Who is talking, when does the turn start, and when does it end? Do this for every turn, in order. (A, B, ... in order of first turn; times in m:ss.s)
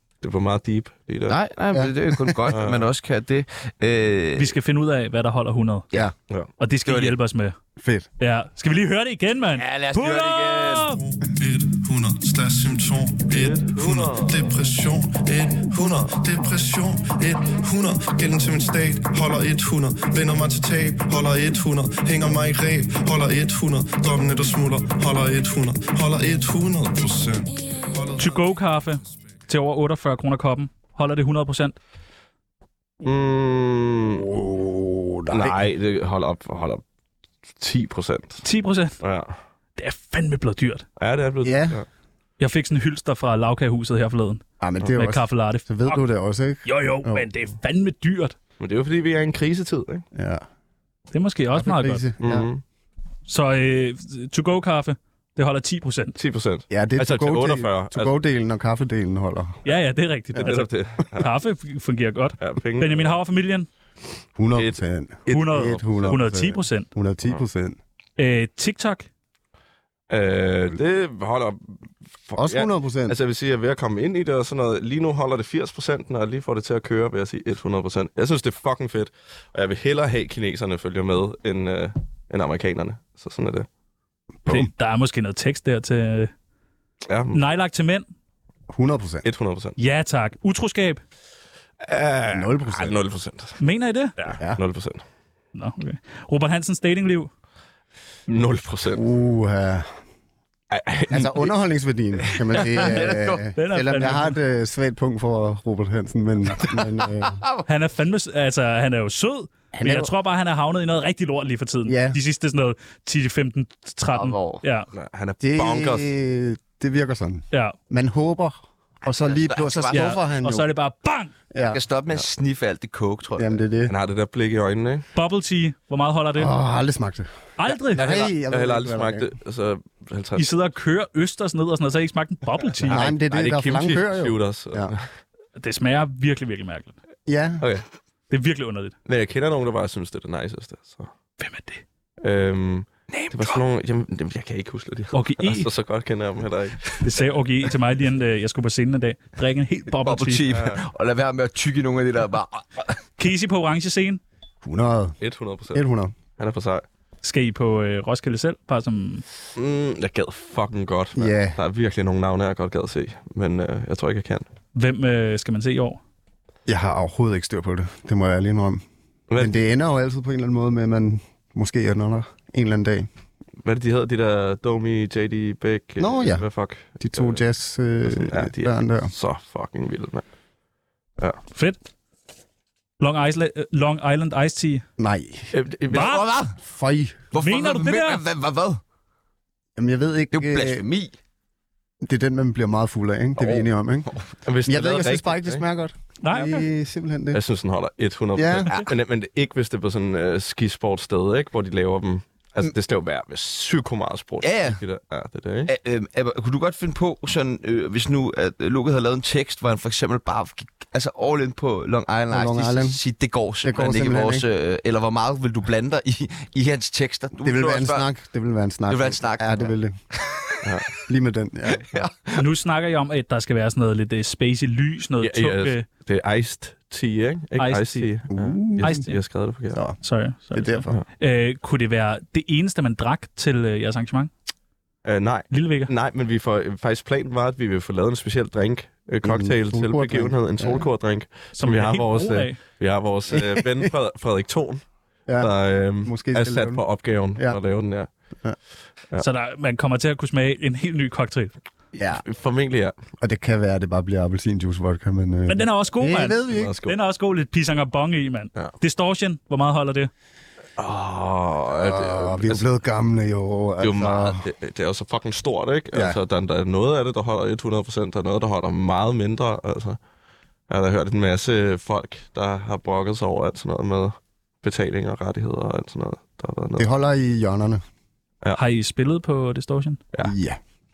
0:00.2-0:01.4 A
0:01.3-0:04.5 B
0:01.7-0:02.5 C
0:02.5-0:02.9 A
0:04.4-0:05.8 D
0:06.6-0:07.5 D
0:06.8-0:07.1 B
0:07.8-0:08.1 C
0:08.2-0:11.0 D
0:09.5-0:10.9 B
0:11.3-0:28.4 E
0:13.3-0:14.4 A
0:28.2-0:31.8 D
0:33.0-0:34.2 A
0:34.1-0:35.7 C
0:35.3-0:36.8 A
0:37.6-0:38.4 A
0:38.4-0:39.0 D
0:39.0-0:39.4 A
0:39.8-0:40.8 D
0:41.0-0:41.8 A
0:41.4-0:41.8 C
0:42.4-0:46.0 D
0:44.6-0:47.3 C
0:46.6-0:48.3 D
0:48.6-0:50.0 A
0:50.1-0:50.4 C
0:51.1-0:52.0 D
0:51.5-0:52.5 C
0:52.2-0:52.6 A
0:53.3-0:56.2 D
0:56.2-0:58.1 A
0:56.7-0:59.6 C
0:59.6-1:03.7 D
1:00.4-1:01.3 A
1:02.4-1:03.2 A
1:04.4-1:07.8 C
1:04.5-1:06.2 A
1:05.3-1:06.9 D
1:08.2-1:09.1 D
1:10.1-1:23.7 A
1:12.4-1:13.2 C
1:24.5-1:26.3 D
1:27.1-1:27.4 A
1:27.3-1:28.1 D
1:28.7-1:29.2 C
1:29.2-1:29.8 A
1:29.8-1:31.0 D
1:31.8-1:33.6 A
1:32.3-1:33.0 C
1:33.6-1:34.1 D
1:34.2-1:35.0 A
1:35.5-1:37.3 D
1:38.3-1:39.0 A
1:38.9-1:40.0 C
1:40.7-1:41.5 A
1:41.1-1:47.4 C
1:42.4-1:43.5 B
1:43.5-1:44.4 D
1:47.0-1:47.6 B
1:47.6-1:54.9 D
1:49.7-1:50.1 C
1:51.9-1:52.2 C
1:54.1-1:54.6 B
1:54.9-1:56.1 A
1:55.4-2:00.7 C
1:59.2-2:00.1 B
1:59.9-2:01.3 D
2:01.5-2:01.8 C
2:01.6-2:03.6 B
2:03.4-2:03.9 C
2:03.9-2:05.1 A
2:05.1-2:06.5 D
2:06.3-2:07.3 C
2:07.6-2:08.0 D
2:07.8-2:09.3 C
2:08.0-2:10.5 A
2:10.4-2:13.0 D
2:12.8-2:14.9 C
2:12.8-2:15.1 A
2:15.6-2:17.0 D
2:17.3-2:17.6 C
2:17.6-2:17.8 A
2:18.3-2:18.9 D
2:19.0-2:21.1 A
2:21.4-2:21.8 D
2:22.2-2:27.0 A
2:23.1-2:23.6 B
2:25.1-2:25.7 D
2:27.0-2:30.4 D
2:30.0-2:33.0 B
2:30.5-2:30.8 A
2:33.2-2:34.2 D
2:34.6-2:35.2 C
2:35.2-2:35.8 A
2:35.7-2:36.1 C
2:36.4-2:36.8 A
2:37.2-2:39.2 D
2:39.5-2:44.4 A
2:41.1-2:41.6 C
2:44.7-2:46.0 D
2:46.7-2:48.8 C
2:49.3-2:49.6 A
2:49.4-2:53.1 C
2:53.6-2:57.4 A
2:56.0-2:59.1 C
2:58.0-3:00.2 A
3:03.0-3:04.8 D
3:05.0-3:05.5 C
3:05.5-3:06.2 A
3:05.9-3:06.2 D
3:05.9-3:06.6 B
3:06.6-3:07.2 C
3:07.3-3:08.8 B
3:07.4-3:08.2 D
3:09.8-3:10.8 C
3:10.3-3:11.1 B
3:12.0-3:14.1 C
3:13.4-3:13.6 A
3:14.4-3:15.6 A
3:14.6-3:17.4 C
3:16.2-3:16.6 D
3:17.3-3:25.7 A
3:18.3-3:18.7 C
3:24.4-3:24.8 B
3:25.6-3:38.0 B
3:32.3-3:33.0 C
3:33.6-3:34.4 C
3:37.4-3:39.9 C
3:38.9-3:40.6 B
3:40.6-3:40.9 A
3:41.1-3:41.9 C
3:41.8-3:42.4 B
3:42.4-3:45.8 D
3:45.2-3:49.8 A
3:47.6-3:48.1 D
3:48.3-3:49.0 C
3:48.8-3:49.2 D
3:49.7-3:50.0 C
3:50.0-3:54.3 D
3:50.5-3:50.9 C
3:55.0-4:04.8 A
3:55.5-3:55.9 D
3:59.2-4:00.9 C
4:01.6-4:02.6 D
4:03.3-4:03.9 C
4:05.3-4:06.8 C
4:05.4-4:08.1 A
4:09.2-4:11.5 D
4:12.0-4:12.2 C
4:12.0-4:13.0 A
4:13.2-4:16.8 C
4:15.5-4:20.1 D
4:16.5-4:17.0 A
4:20.8-4:22.6 A
4:21.8-4:24.4 C
4:23.8-4:30.0 A
4:25.9-4:26.2 C
4:30.7-4:36.9 A
4:36.8-4:37.8 C
4:38.6-4:40.0 D
4:40.2-4:40.6 C